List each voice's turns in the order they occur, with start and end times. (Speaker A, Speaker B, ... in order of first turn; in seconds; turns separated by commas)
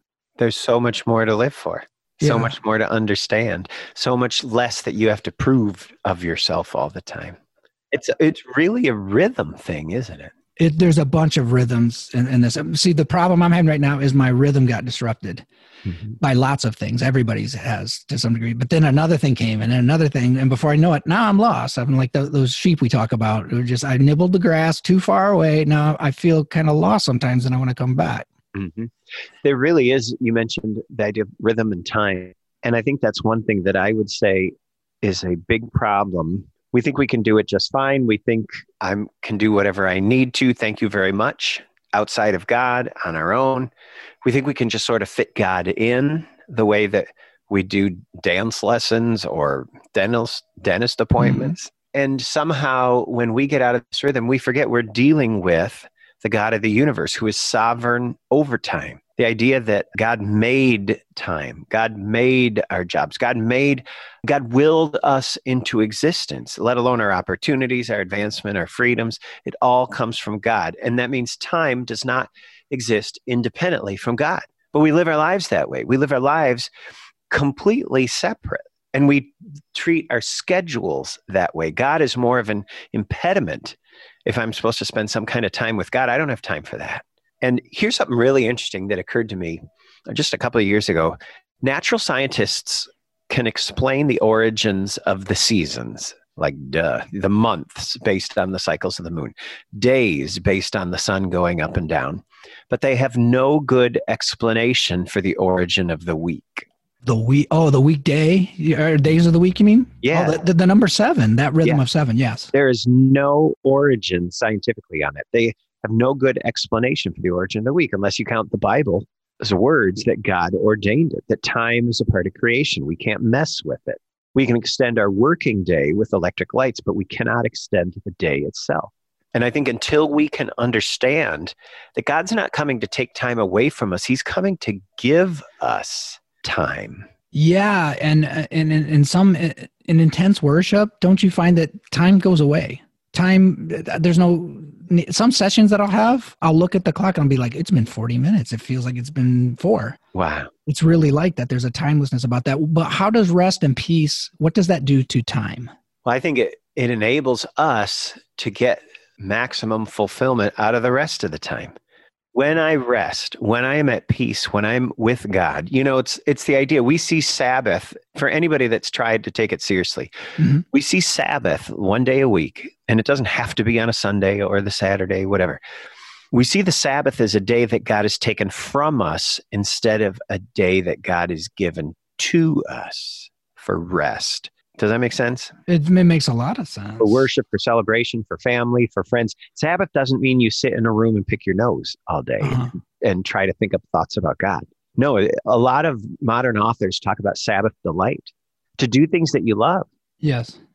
Speaker A: 0.4-7.4, Speaker B: 2.2-2.5, Speaker A: 7.9-10.3, Speaker B: 10.6-15.4, Speaker A: 15.9-16.1, Speaker B: 16.2-28.3, Speaker A: 28.5-43.7, Speaker A: 44.2-76.7, Speaker B: 51.2-51.5, Speaker A: 77.3-106.7, Speaker B: 107.0-112.5, Speaker A: 110.0-110.4, Speaker A: 112.5-137.1, Speaker B: 137.3-150.0, Speaker A: 150.1-150.5, Speaker B: 150.7-155.7, Speaker A: 156.0-161.7, Speaker A: 162.3-170.1, Speaker B: 170.4-170.6, Speaker A: 170.7-175.6, Speaker A: 176.3-185.5, Speaker B: 185.7-187.3, Speaker A: 187.0-199.9, Speaker B: 192.4-192.7, Speaker B: 200.2-200.6